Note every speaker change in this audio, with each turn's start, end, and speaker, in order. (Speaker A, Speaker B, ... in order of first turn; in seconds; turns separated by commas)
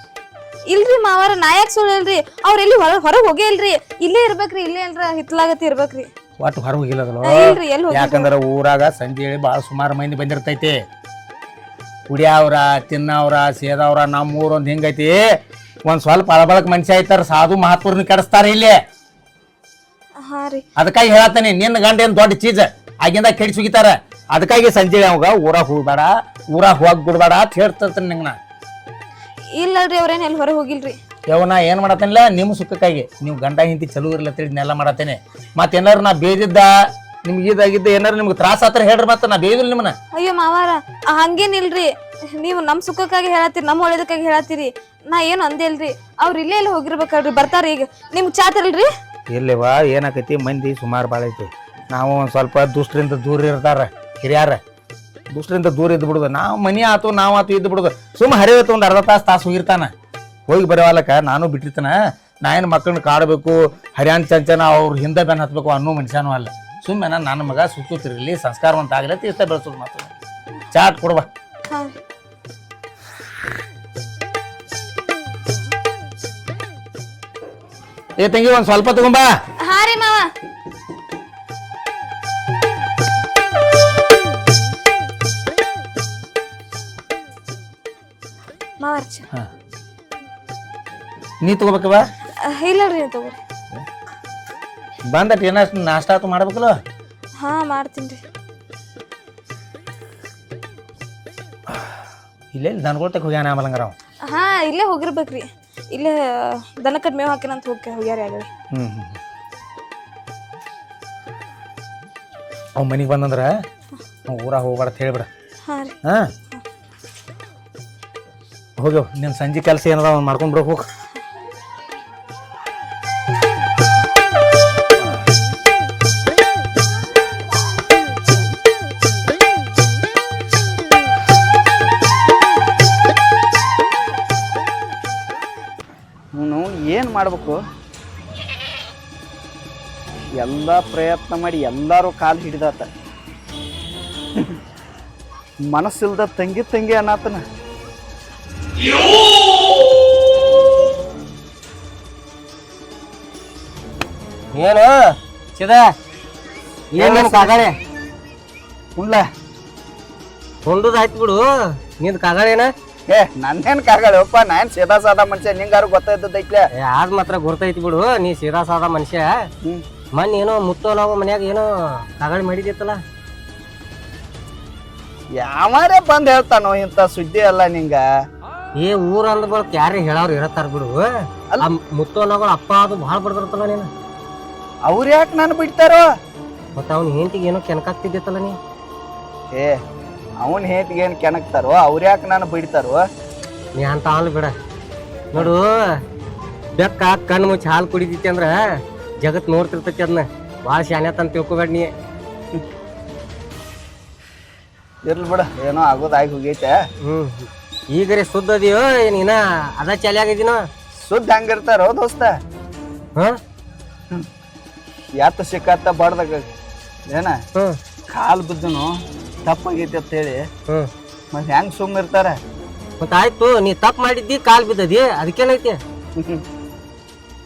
Speaker A: 0.7-6.1, Speaker B: 6.4-10.8, Speaker A: 7.2-8.3, Speaker B: 12.1-15.2, Speaker B: 15.8-18.8, Speaker A: 20.2-20.6, Speaker B: 20.8-28.4, Speaker A: 29.6-31.0, Speaker B: 31.3-36.7, Speaker B: 37.2-39.9, Speaker A: 40.1-48.9, Speaker B: 49.3-54.6, Speaker B: 55.3-59.9, Speaker B: 60.5-70.1, Speaker B: 70.7-71.2, Speaker B: 78.2-79.3, Speaker A: 79.6-80.3, Speaker A: 88.8-89.2, Speaker B: 91.4-92.0, Speaker A: 92.5-93.4, Speaker B: 95.1-96.7, Speaker A: 97.4-98.2, Speaker B: 102.5-103.9, Speaker A: 104.3-108.5, Speaker B: 108.7-109.2, Speaker B: 112.8-113.5, Speaker B: 114.3-115.3, Speaker A: 115.7-116.0, Speaker B: 118.8-120.9, Speaker C: 136.4-137.6, Speaker C: 140.4-142.9, Speaker C: 145.7-147.4, Speaker D: 154.5-154.9, Speaker D: 155.6-155.9, Speaker D: 156.9-157.7, Speaker C: 157.0-157.6, Speaker C: 159.0-159.2, Speaker D: 160.7-161.4, Speaker D: 162.0-162.7, Speaker C: 163.1-166.7, Speaker D: 166.8-169.3, Speaker D: 170.2-171.7, Speaker D: 172.2-173.0, Speaker C: 175.4-178.0, Speaker D: 178.8-181.1, Speaker D: 181.6-183.9, Speaker C: 184.9-186.1, Speaker D: 186.8-188.6, Speaker C: 189.5-189.8, Speaker C: 190.4-193.0, Speaker D: 193.8-194.5, Speaker D: 195.3-196.0, Speaker D: 196.8-198.6, Speaker D: 199.2-201.9, Speaker C: 205.1-206.8, Speaker D: 207.0-210.6, Speaker C: 211.0-212.4, Speaker C: 215.2-216.4, Speaker C: 217.1-217.4, Speaker C: 218.1-218.9, Speaker C: 219.5-220.4, Speaker C: 221.3-222.4, Speaker D: 223.0-225.8, Speaker C: 226.2-226.4